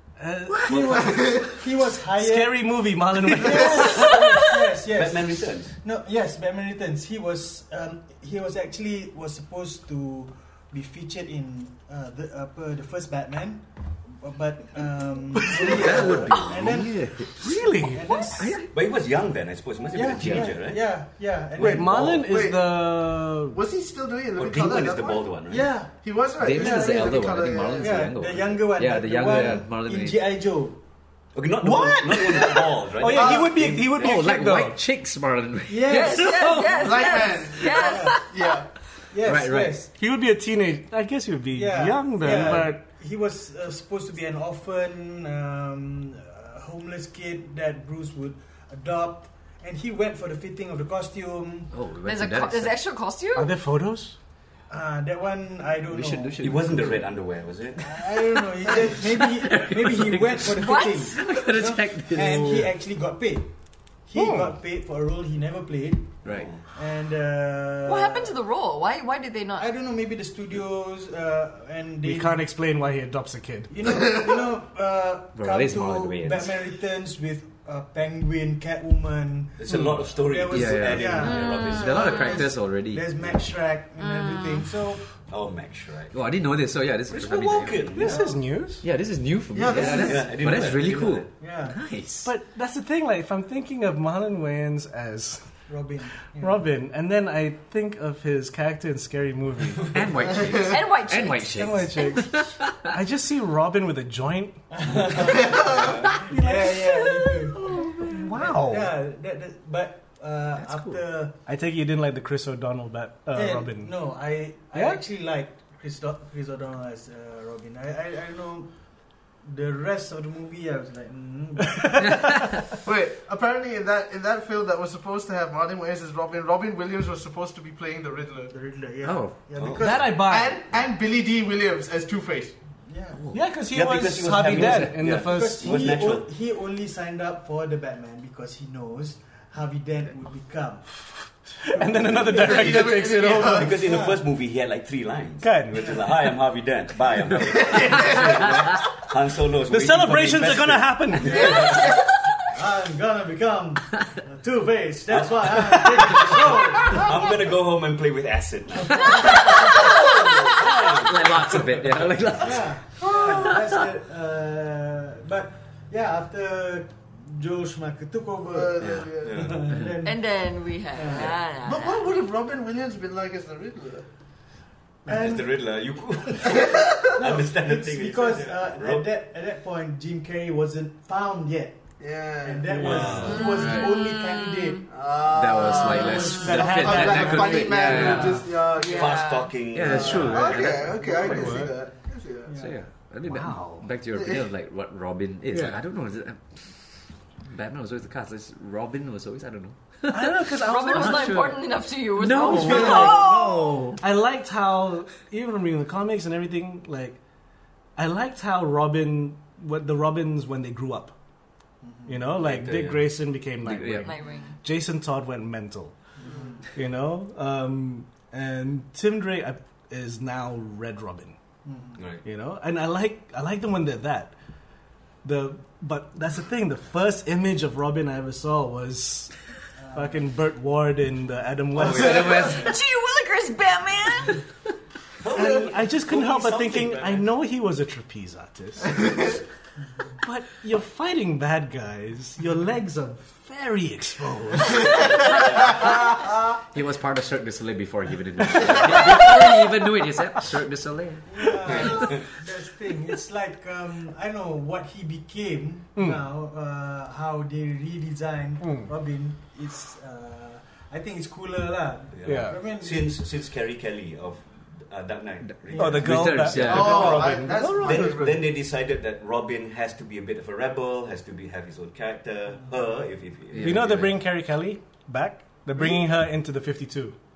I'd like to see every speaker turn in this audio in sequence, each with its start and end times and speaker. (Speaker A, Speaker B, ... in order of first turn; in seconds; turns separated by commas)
Speaker A: 0.2-1.4, Speaker B: 0.5-0.9, Speaker C: 0.7-1.0, Speaker D: 0.9-1.5, Speaker E: 1.5-18.6, Speaker A: 2.2-4.1, Speaker C: 4.9-5.7, Speaker A: 15.3-16.1, Speaker B: 15.6-17.4, Speaker A: 17.3-18.2, Speaker B: 18.3-18.7, Speaker C: 18.7-20.9, Speaker E: 19.9-22.0, Speaker B: 20.1-20.5, Speaker C: 21.6-22.3, Speaker A: 21.6-23.6, Speaker D: 22.2-25.3, Speaker C: 24.4-25.7, Speaker E: 25.5-25.9, Speaker D: 25.9-28.0, Speaker B: 26.4-30.3, Speaker E: 26.5-27.1, Speaker E: 27.7-30.8, Speaker C: 31.3-34.2, Speaker A: 31.6-34.8, Speaker D: 33.1-33.5, Speaker B: 33.9-36.9, Speaker E: 35.7-36.5, Speaker F: 35.9-38.5, Speaker D: 36.7-38.7, Speaker E: 37.6-38.2, Speaker E: 39.1-39.9, Speaker B: 39.2-39.9, Speaker A: 39.9-42.8, Speaker E: 41.5-51.7, Speaker B: 51.7-52.8, Speaker F: 52.0-53.5, Speaker A: 53.3-54.1, Speaker E: 54.7-56.4, Speaker B: 55.9-57.1, Speaker C: 56.4-58.0, Speaker E: 57.8-63.5, Speaker B: 59.0-62.7, Speaker F: 60.6-61.1, Speaker E: 64.0-68.3, Speaker A: 64.1-64.5, Speaker B: 66.2-66.5, Speaker C: 66.2-66.6, Speaker F: 67.8-69.7, Speaker E: 69.6-72.4, Speaker A: 72.0-73.7, Speaker E: 73.7-85.0, Speaker B: 75.3-76.5, Speaker C: 79.6-82.3, Speaker A: 79.7-80.0, Speaker B: 80.5-83.1, Speaker F: 81.2-82.4, Speaker F: 84.0-84.7, Speaker C: 85.3-86.2, Speaker B: 86.1-88.0, Speaker C: 87.1-88.2, Speaker A: 87.9-88.8, Speaker E: 88.0-88.4, Speaker B: 88.8-92.3, Speaker D: 89.5-90.2, Speaker C: 89.6-91.3, Speaker E: 89.7-90.1, Speaker E: 91.4-91.8, Speaker A: 92.2-95.5, Speaker E: 95.7-96.6, Speaker A: 96.3-100.1, Speaker B: 99.8-102.9, Speaker D: 100.3-100.7, Speaker F: 100.6-102.3, Speaker A: 101.5-105.3, Speaker E: 104.7-111.3, Speaker D: 105.4-105.9, Speaker C: 105.8-106.1, Speaker A: 106.2-106.8, Speaker A: 108.0-108.9, Speaker B: 110.6-111.0, Speaker A: 111.5-113.9, Speaker E: 113.3-118.7, Speaker A: 114.7-115.0, Speaker E: 119.4-122.3, Speaker A: 121.8-122.2, Speaker D: 122.8-128.5, Speaker E: 128.5-130.1, Speaker B: 129.0-129.6, Speaker C: 129.6-130.1, Speaker A: 129.8-130.6, Speaker D: 130.1-132.5, Speaker E: 132.8-133.2, Speaker B: 133.1-133.5, Speaker A: 133.3-136.1, Speaker C: 133.7-136.3, Speaker B: 134.5-135.1, Speaker E: 135.2-141.0, Speaker A: 141.1-143.7, Speaker E: 141.7-142.8, Speaker D: 142.3-144.0, Speaker C: 143.5-151.9, Speaker E: 143.7-144.2, Speaker A: 145.4-146.0, Speaker D: 147.6-148.3, Speaker A: 149.7-151.5, Speaker D: 151.3-152.0, Speaker E: 152.4-157.1, Speaker C: 155.1-162.2, Speaker B: 160.5-163.8, Speaker E: 162.4-170.3, Speaker D: 168.5-169.5, Speaker C: 169.2-169.7, Speaker F: 170.0-172.1, Speaker E: 170.9-171.4, Speaker D: 171.5-174.1, Speaker E: 175.1-175.5, Speaker C: 175.1-179.0, Speaker D: 176.5-177.1, Speaker E: 177.1-181.8, Speaker D: 182.0-183.5, Speaker E: 182.4-184.9, Speaker A: 182.7-183.3, Speaker C: 182.8-183.5, Speaker F: 183.3-184.8, Speaker B: 183.5-183.9, Speaker D: 184.9-192.5, Speaker B: 185.3-188.5, Speaker E: 185.6-187.3, Speaker A: 186.3-188.4, Speaker F: 188.6-189.6, Speaker C: 188.9-190.5, Speaker B: 189.7-191.6, Speaker E: 189.9-190.3, Speaker A: 191.0-191.7, Speaker E: 192.4-192.8, Speaker B: 192.6-196.7, Speaker A: 193.2-193.9, Speaker D: 194.1-194.5, Speaker A: 195.5-195.8, Speaker B: 197.4-201.6, Speaker A: 200.1-201.6, Speaker F: 200.6-203.7, Speaker B: 202.2-204.0, Speaker A: 202.3-203.3, Speaker E: 202.8-203.5, Speaker A: 203.9-207.2, Speaker A: 207.9-211.1, Speaker E: 211.8-212.2, Speaker A: 212.1-215.9, Speaker C: 212.3-213.2, Speaker B: 213.6-214.1, Speaker F: 214.0-214.6, Speaker E: 216.2-216.6, Speaker A: 216.7-221.4, Speaker E: 221.6-222.0, Speaker C: 222.0-222.2, Speaker A: 222.2-224.3, Speaker A: 225.2-229.3, Speaker E: 229.8-230.2, Speaker A: 229.9-232.4, Speaker C: 231.8-232.6, Speaker B: 231.9-232.7, Speaker F: 231.9-234.4, Speaker C: 235.2-237.3, Speaker A: 235.3-239.2, Speaker A: 240.2-245.1, Speaker B: 245.8-246.1, Speaker B: 246.7-251.9, Speaker E: 251.3-263.1, Speaker C: 251.7-252.3, Speaker A: 258.6-258.9, Speaker C: 262.1-274.0, Speaker A: 262.2-262.6, Speaker A: 265.7-268.4, Speaker B: 265.8-267.2, Speaker D: 266.5-268.5, Speaker B: 273.5-274.2, Speaker A: 273.6-277.1